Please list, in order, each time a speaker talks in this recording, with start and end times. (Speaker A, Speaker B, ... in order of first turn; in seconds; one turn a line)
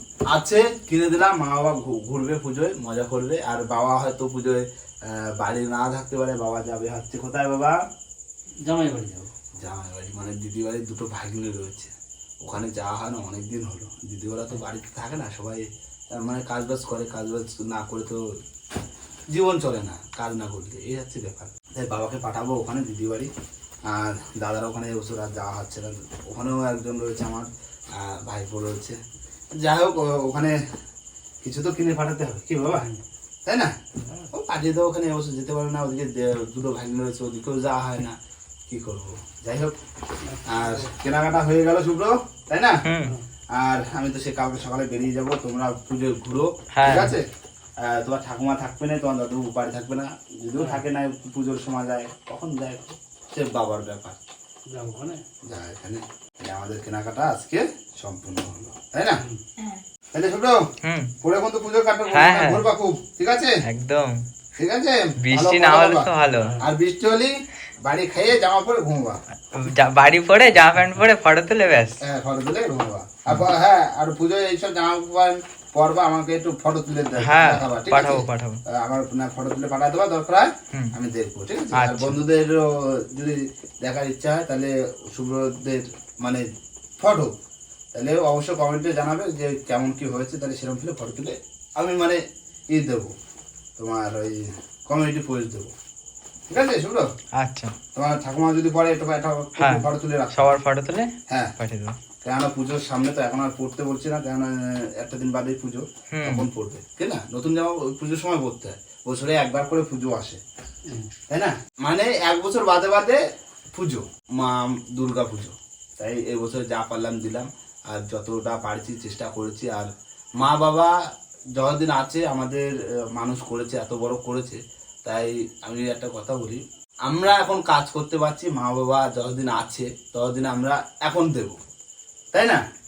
Speaker A: 0.3-7.8
Speaker B: 8.6-9.3
Speaker A: 9.6-18.2
Speaker A: 19.3-23.3
Speaker A: 23.9-29.0
Speaker A: 29.6-30.6
Speaker A: 31.4-32.9
Speaker B: 32.7-33.0
Speaker A: 33.5-33.7
Speaker B: 34.0-34.3
Speaker A: 34.3-38.2
Speaker A: 38.7-39.7
Speaker B: 40.2-40.9
Speaker A: 40.5-42.8
Speaker C: 42.8-43.1
Speaker A: 43.5-47.2
Speaker C: 46.8-47.1
Speaker A: 47.8-54.2
Speaker B: 50.6-50.8
Speaker B: 54.7-55.2
Speaker A: 55.5-59.2
Speaker A: 60.1-60.6
Speaker C: 60.8-61.1
Speaker A: 61.2-63.6
Speaker C: 62.1-62.7
Speaker C: 63.6-64.2
Speaker A: 64.6-66.1
Speaker C: 65.2-66.6
Speaker A: 66.6-69.2
Speaker C: 69.5-72.0
Speaker A: 72.0-86.5
Speaker C: 77.2-78.6
Speaker C: 81.7-82.2
Speaker A: 87.0-87.3
Speaker A: 87.9-92.2
Speaker A: 92.7-93.1
Speaker A: 93.8-95.7
Speaker A: 96.5-97.1
Speaker C: 97.3-97.8
Speaker A: 98.0-100.6
Speaker C: 99.6-102.0
Speaker A: 101.3-101.5
Speaker A: 102.2-110.4
Speaker C: 106.1-106.5
Speaker A: 111.3-113.2
Speaker A: 113.8-120.9
Speaker A: 121.6-131.6
Speaker A: 132.3-132.6